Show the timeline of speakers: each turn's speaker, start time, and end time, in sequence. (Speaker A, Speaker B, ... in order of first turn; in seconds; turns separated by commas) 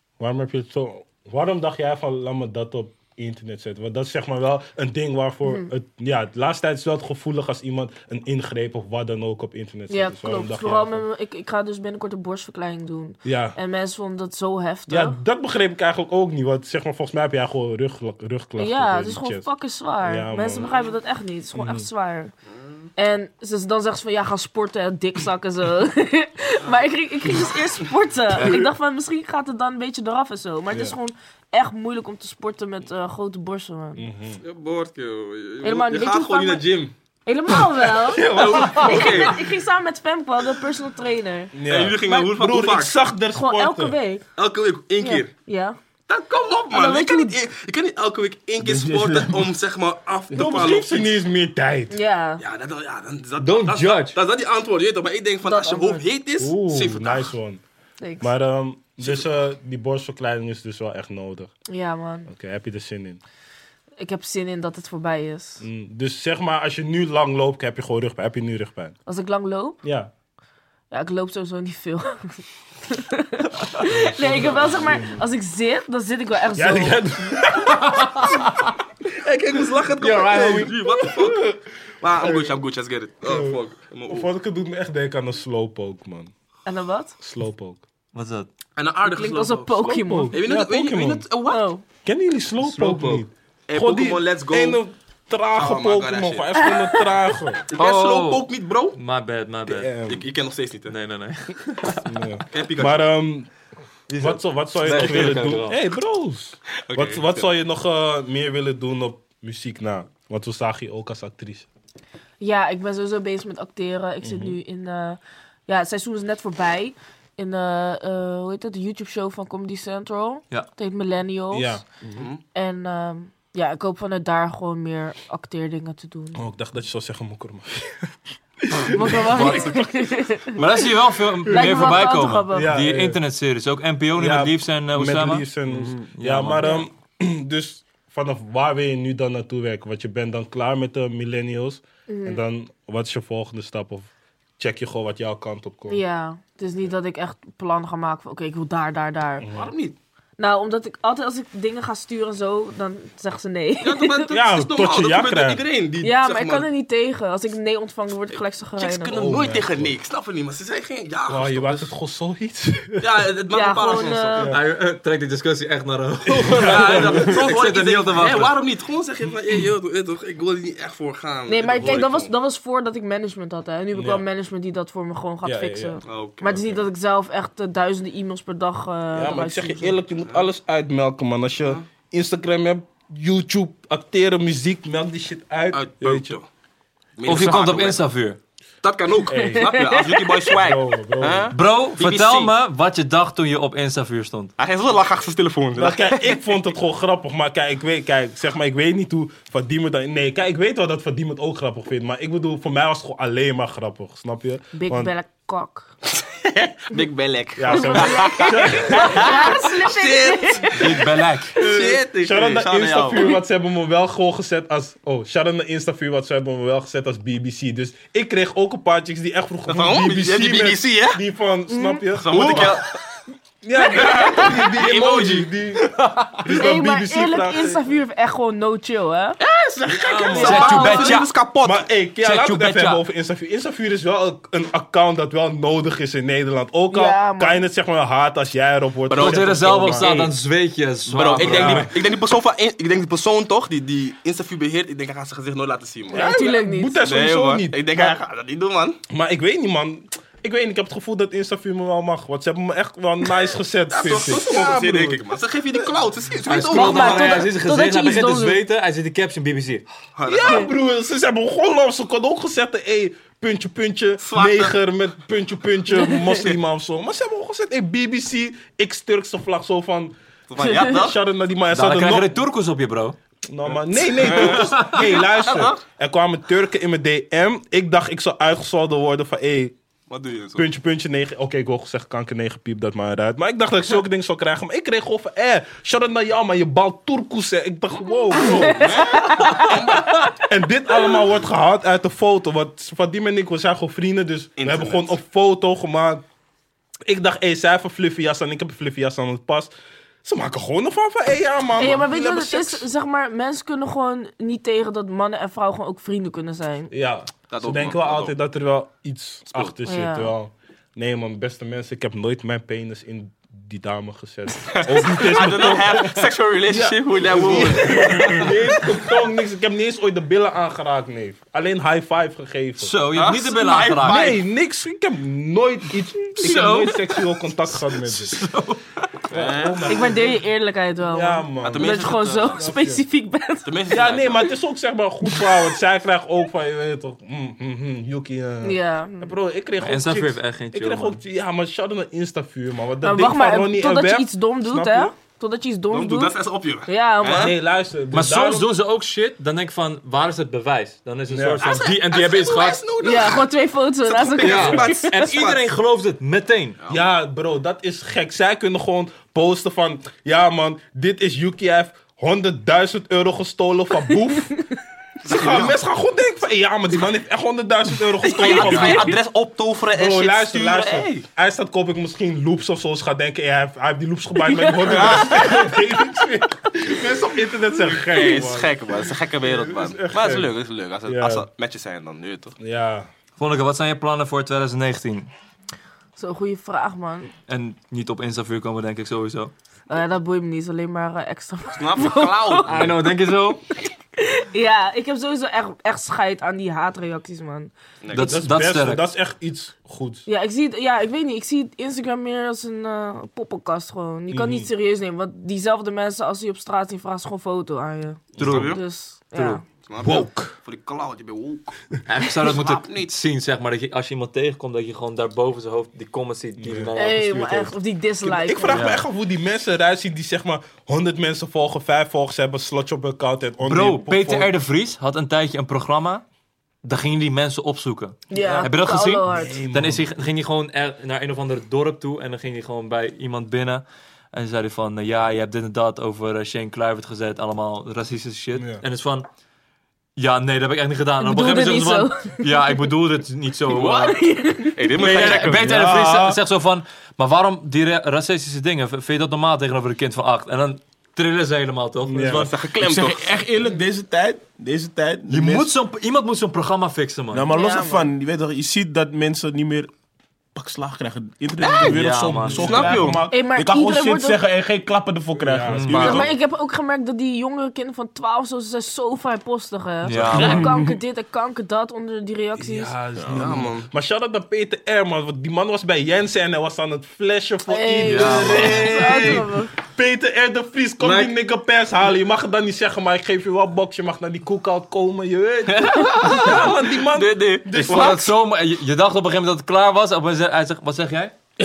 Speaker A: 0.2-11.0, Speaker B: 5.4-5.7, Speaker B: 9.9-15.2, Speaker A: 13.2-13.6, Speaker A: 14.9-19.5, Speaker B: 18.6-22.3, Speaker A: 20.0-20.7, Speaker A: 21.5-21.9, Speaker C: 22.6-22.9, Speaker B: 22.9-34.0, Speaker D: 28.3-28.7, Speaker A: 30.7-31.0, Speaker A: 34.0-34.4, Speaker C: 34.4-36.9, Speaker B: 35.6-36.6, Speaker B: 37.2-42.3, Speaker A: 38.1-39.2, Speaker C: 38.2-39.4, Speaker A: 41.5-44.0, Speaker C: 41.6-43.0, Speaker B: 43.3-44.2, Speaker C: 44.4-45.3, Speaker B: 45.0-45.8, Speaker C: 46.1-51.2, Speaker B: 46.7-47.4, Speaker E: 48.6-49.5, Speaker A: 50.3-52.0, Speaker B: 51.9-52.4, Speaker C: 52.4-57.3, Speaker D: 53.4-54.2, Speaker B: 55.4-56.0, Speaker A: 56.4-57.6, Speaker B: 58.0-58.3, Speaker A: 58.2-61.5, Speaker B: 61.7-62.3, Speaker A: 62.3-63.2, Speaker B: 64.0-65.6, Speaker A: 65.6-69.0, Speaker B: 69.0-69.8, Speaker A: 69.8-70.1, Speaker B: 70.9-77.0, Speaker A: 73.8-75.2, Speaker A: 76.5-78.5, Speaker D: 77.9-78.3, Speaker C: 79.2-81.5, Speaker D: 80.0-80.7, Speaker A: 80.1-81.6, Speaker C: 82.0-84.3, Speaker A: 82.2-82.6, Speaker A: 83.2-86.3, Speaker B: 86.6-87.2, Speaker A: 87.2-87.8, Speaker D: 88.1-88.5, Speaker C: 88.8-91.7, Speaker B: 89.0-90.3, Speaker A: 89.8-91.2, Speaker B: 91.5-91.8, Speaker A: 92.0-97.6, Speaker D: 92.6-93.2, Speaker C: 93.7-94.8, Speaker C: 95.5-96.5, Speaker B: 96.6-97.0, Speaker C: 97.7-99.0, Speaker D: 97.7-99.9, Speaker A: 99.7-100.2, Speaker C: 100.1-100.9, Speaker D: 100.9-102.1, Speaker A: 102.0-103.5, Speaker C: 102.5-103.1, Speaker D: 104.1-105.8, Speaker A: 104.2-111.7, Speaker C: 104.8-105.6, Speaker C: 106.9-107.4, Speaker B: 112.4-121.8, Speaker A: 114.2-114.6, Speaker A: 121.5-121.8, Speaker C: 122.2-122.4, Speaker B: 122.5-126.4, Speaker A: 126.3-129.8, Speaker B: 128.9-130.8, Speaker D: 129.3-129.7, Speaker D: 130.5-135.5, Speaker B: 131.4-132.7, Speaker A: 132.5-133.2, Speaker A: 134.2-146.0, Speaker E: 135.7-136.1, Speaker D: 136.1-136.7, Speaker B: 136.6-136.9, Speaker B: 142.1-142.4, Speaker B: 145.9-149.5, Speaker A: 149.4-149.7, Speaker C: 149.5-150.0, Speaker B: 150.4-154.3, Speaker C: 153.8-156.7, Speaker A: 154.3-155.6, Speaker B: 156.0-159.4, Speaker C: 158.3-161.9, Speaker A: 159.2-159.9, Speaker A: 161.3-163.0, Speaker C: 163.0-164.5, Speaker B: 163.5-164.5, Speaker A: 164.3-164.6, Speaker D: 164.5-168.6, Speaker A: 166.4-167.3, Speaker C: 166.4-172.3, Speaker B: 171.5-180.0, Speaker A: 173.9-174.2, Speaker A: 175.4-176.0, Speaker C: 176.1-176.8, Speaker A: 179.1-186.4, Speaker C: 185.7-186.4, Speaker C: 187.2-188.0, Speaker D: 187.2-188.4, Speaker C: 188.8-192.5, Speaker A: 189.3-189.9, Speaker B: 189.3-190.4, Speaker A: 190.4-191.6, Speaker D: 191.5-194.5, Speaker C: 194.6-196.4, Speaker A: 195.7-205.1, Speaker B: 204.7-205.9, Speaker C: 206.1-211.0, Speaker A: 207.6-209.6, Speaker B: 207.7-211.0, Speaker D: 210.7-211.6, Speaker A: 211.5-222.8, Speaker C: 211.6-213.4, Speaker C: 219.7-221.2, Speaker B: 221.7-222.1, Speaker C: 222.1-222.8, Speaker A: 223.6-228.0, Speaker B: 223.8-224.6, Speaker C: 223.9-225.5, Speaker D: 225.9-226.4, Speaker B: 226.5-229.4, Speaker C: 229.4-231.8, Speaker D: 230.0-231.3, Speaker A: 230.2-230.8, Speaker B: 230.3-231.2, Speaker A: 231.6-240.1, Speaker D: 232.2-233.0, Speaker B: 236.9-237.6, Speaker C: 239.1-240.3, Speaker D: 239.1-241.9, Speaker C: 241.1-246.4, Speaker A: 241.2-241.9, Speaker A: 246.1-248.2, Speaker B: 246.1-247.0, Speaker C: 247.0-249.0, Speaker A: 249.1-255.2, Speaker C: 253.9-257.5, Speaker D: 256.4-259.8, Speaker B: 256.6-258.6, Speaker C: 260.1-260.7, Speaker A: 260.3-270.1, Speaker C: 264.2-264.8, Speaker B: 265.9-266.3, Speaker C: 270.5-271.1, Speaker B: 270.6-270.9, Speaker A: 270.7-272.4, Speaker D: 271.7-273.2, Speaker A: 273.5-279.7, Speaker C: 273.7-275.8, Speaker D: 274.6-275.0, Speaker C: 280.1-280.7, Speaker A: 280.6-289.1, Speaker B: 288.4-290.3, Speaker C: 288.4-290.3, Speaker A: 290.4-296.2, Speaker C: 294.6-295.1, Speaker A: 297.1-299.7, Speaker A: 300.2-302.9, Speaker B: 301.8-306.9, Speaker A: 306.9-322.9, Speaker C: 307.5-308.3, Speaker B: 309.8-310.3, Speaker C: 314.7-318.5, Speaker B: 317.9-318.4, Speaker D: 322.8-324.3, Speaker C: 323.1-324.4, Speaker A: 324.0-328.4, Speaker B: 326.4-326.9, Speaker D: 326.4-326.9, Speaker D: 328.0-328.9, Speaker C: 329.3-330.2, Speaker A: 329.3-330.4, Speaker B: 329.9-333.7, Speaker A: 331.1-333.0, Speaker C: 331.6-332.6, Speaker C: 333.6-334.5, Speaker A: 333.9-345.1, Speaker B: 338.6-339.3, Speaker D: 339.8-341.2, Speaker B: 343.0-346.3, Speaker C: 345.9-347.6, Speaker B: 346.9-347.5, Speaker A: 347.3-348.7, Speaker D: 348.1-352.8, Speaker A: 351.3-351.6, Speaker C: 351.6-355.7, Speaker B: 353.0-355.2, Speaker D: 354.4-356.8, Speaker A: 356.9-364.6, Speaker C: 365.2-365.7, Speaker A: 365.2-369.2, Speaker C: 368.2-371.2, Speaker B: 368.4-369.2, Speaker A: 369.9-380.5, Speaker B: 374.5-375.3, Speaker C: 374.8-375.7, Speaker C: 377.9-382.5, Speaker A: 381.1-381.5, Speaker A: 382.6-383.1, Speaker D: 383.4-385.3, Speaker B: 386.2-387.3, Speaker D: 387.5-389.5, Speaker B: 389.9-392.9, Speaker C: 391.8-392.8, Speaker D: 392.6-393.6, Speaker B: 394.2-397.7, Speaker C: 398.0-398.4, Speaker D: 398.1-399.1, Speaker A: 398.1-400.2, Speaker B: 400.2-409.6, Speaker A: 404.3-404.7, Speaker D: 408.4-408.8, Speaker C: 408.4-408.8, Speaker D: 409.3-409.6, Speaker C: 409.8-411.6, Speaker A: 410.0-410.5, Speaker D: 412.1-417.7, Speaker C: 412.2-413.1, Speaker A: 416.6-416.9, Speaker B: 416.9-418.9, Speaker A: 418.2-424.5, Speaker D: 418.7-419.0, Speaker D: 423.6-426.2, Speaker D: 426.8-439.3, Speaker B: 428.3-429.6, Speaker A: 428.3-428.7, Speaker A: 429.2-430.1, Speaker A: 438.5-438.8, Speaker D: 440.1-444.2, Speaker B: 441.2-442.8, Speaker C: 443.7-445.6, Speaker B: 444.1-444.8, Speaker D: 444.9-452.5, Speaker A: 445.0-446.4, Speaker A: 452.0-452.5, Speaker C: 452.2-453.3, Speaker E: 452.8-455.7, Speaker D: 455.3-457.5, Speaker E: 457.3-459.9, Speaker B: 457.5-458.1, Speaker E: 460.5-466.3, Speaker B: 461.6-461.9, Speaker D: 461.8-463.0, Speaker A: 462.6-463.2, Speaker C: 462.6-463.2, Speaker B: 463.3-464.4, Speaker A: 465.3-466.3, Speaker D: 465.7-466.2, Speaker B: 465.9-473.0, Speaker D: 470.0-470.7, Speaker E: 470.2-471.0, Speaker A: 472.6-488.2, Speaker E: 473.1-473.6, Speaker C: 473.3-473.9, Speaker B: 477.7-479.7, Speaker D: 478.0-478.8, Speaker C: 478.7-479.3, Speaker C: 481.0-481.3, Speaker C: 485.7-488.3, Speaker D: 487.7-491.4